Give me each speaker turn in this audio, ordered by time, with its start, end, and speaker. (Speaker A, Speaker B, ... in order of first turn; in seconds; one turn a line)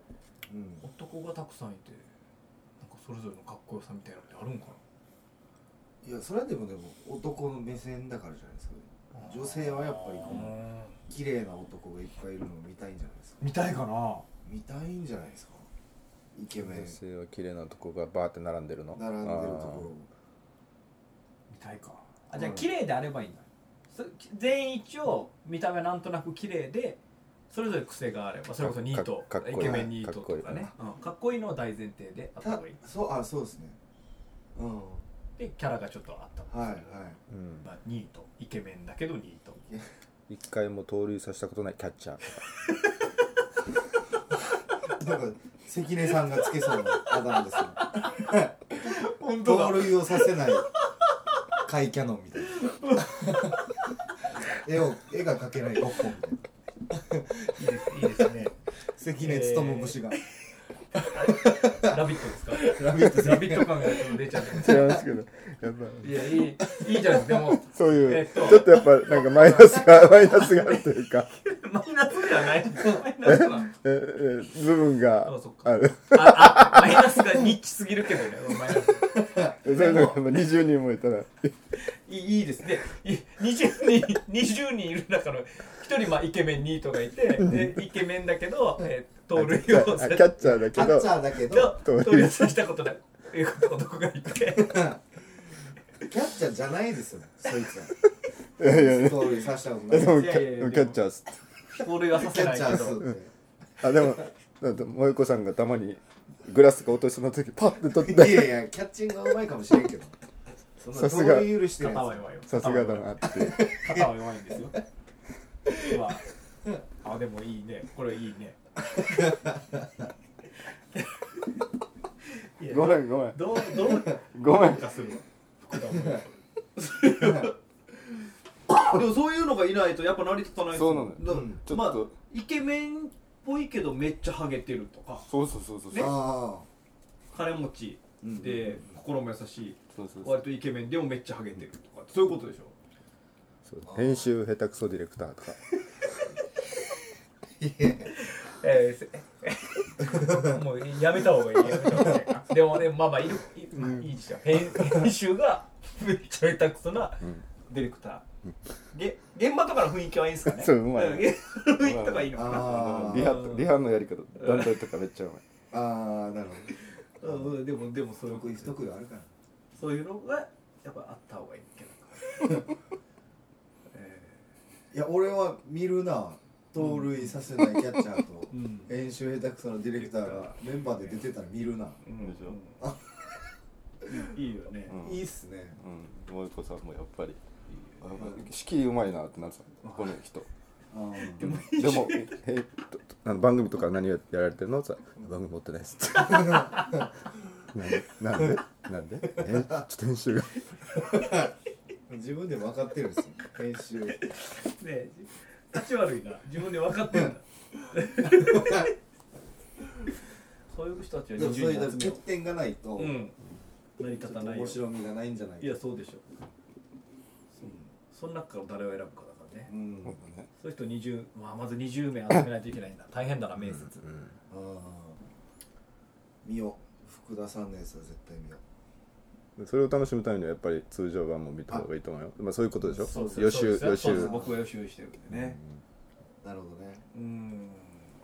Speaker A: 0.5-0.8
Speaker B: 0.8-2.1
Speaker B: 2.8-4.8
Speaker A: 6.0-10.5
Speaker B: 9.1-10.9
Speaker A: 11.1-13.4
Speaker B: 13.4-14.2
Speaker A: 14.4-15.7
Speaker A: 16.3-17.0
Speaker C: 16.6-19.9
Speaker A: 18.9-20.1
Speaker B: 21.5-27.0
Speaker A: 22.4-22.6
Speaker B: 27.5-32.8
Speaker C: 28.6-30.7
Speaker A: 29.6-29.9
Speaker A: 32.4-33.8
Speaker A: 34.5-35.0
Speaker B: 35.4-36.5
Speaker A: 36.5-37.2
Speaker C: 37.3-37.6
Speaker B: 37.6-39.6
Speaker C: 40.3-42.4
Speaker A: 44.8-50.7
Speaker B: 47.5-51.4
Speaker A: 51.6-53.7
Speaker B: 52.5-53.6
Speaker A: 54.3-58.2
Speaker B: 57.5-58.5
Speaker A: 58.8-60.2
Speaker B: 59.2-60.2
Speaker A: 60.9-65.0
Speaker B: 61.0-64.8
Speaker C: 64.5-66.4
Speaker B: 66.0-73.7
Speaker C: 67.3-71.3
Speaker C: 73.2-77.3
Speaker B: 75.2-80.2
Speaker A: 79.0-79.6
Speaker C: 79.6-81.5
Speaker B: 81.8-90.4
Speaker C: 87.4-87.8
Speaker C: 89.3-92.5
Speaker A: 90.4-91.8
Speaker B: 91.5-94.9
Speaker A: 94.6-95.0
Speaker A: 96.0-98.0
Speaker C: 98.6-101.4
Speaker A: 98.6-100.2
Speaker B: 99.9-101.0
Speaker B: 101.8-103.0
Speaker A: 102.1-103.3
Speaker C: 103.8-108.6
Speaker A: 108.0-110.1
Speaker A: 110.8-112.2
Speaker C: 110.9-111.6
Speaker B: 111.8-114.8
Speaker C: 112.5-113.7
Speaker A: 113.3-114.1
Speaker B: 115.8-116.2
Speaker B: 117.0-119.4
Speaker A: 119.1-119.9
Speaker B: 120.9-121.3
Speaker B: 122.3-127.5
Speaker C: 122.7-123.6
Speaker C: 124.3-124.9
Speaker A: 125.9-126.2
Speaker A: 127.0-127.5
Speaker B: 128.7-135.3
Speaker C: 130.7-132.1
Speaker A: 131.2-131.6
Speaker C: 135.2-136.2
Speaker B: 135.9-136.1
Speaker A: 135.9-136.7
Speaker B: 137.3-142.7
Speaker A: 138.2-138.9
Speaker C: 139.9-140.4
Speaker C: 143.6-145.6
Speaker A: 143.9-144.3
Speaker A: 147.6-148.1
Speaker B: 148.1-158.2
Speaker C: 153.8-154.1
Speaker B: 158.9-163.7
Speaker C: 160.4-165.4
Speaker A: 162.3-163.4
Speaker B: 164.4-164.7
Speaker A: 165.7-167.6
Speaker B: 166.8-168.7
Speaker A: 168.2-169.3
Speaker B: 169.8-172.6
Speaker B: 173.9-174.4
Speaker A: 174.9-182.0
Speaker B: 176.8-177.4
Speaker B: 178.5-178.9
Speaker B: 180.0-181.1
Speaker B: 182.0-182.8
Speaker C: 182.2-182.6
Speaker A: 182.8-183.4
Speaker B: 184.1-185.0
Speaker C: 184.9-185.2
Speaker A: 184.9-185.8
Speaker C: 185.8-187.4
Speaker B: 187.7-188.0
Speaker C: 188.0-190.5
Speaker B: 189.8-190.1
Speaker A: 190.9-191.5
Speaker B: 191.1-192.3
Speaker C: 191.4-197.0
Speaker B: 196.2-197.0
Speaker A: 196.3-197.1
Speaker C: 197.7-200.7
Speaker A: 198.3-198.6
Speaker A: 199.2-199.8
Speaker A: 200.9-201.5
Speaker A: 202.1-204.2
Speaker B: 204.2-208.9
Speaker A: 208.2-208.9
Speaker B: 210.7-212.2
Speaker A: 211.3-213.2
Speaker B: 213.0-213.3
Speaker B: 214.0-214.8
Speaker A: 214.2-215.8
Speaker B: 215.6-216.2
Speaker A: 217.6-217.8
Speaker B: 217.6-219.7
Speaker A: 219.7-220.4
Speaker B: 220.6-224.1
Speaker A: 224.5-225.2
Speaker A: 226.4-228.6
Speaker C: 229.6-234.3
Speaker A: 232.9-234.6
Speaker B: 233.1-235.6
Speaker C: 235.3-235.8
Speaker A: 236.4-237.0
Speaker B: 237.1-238.1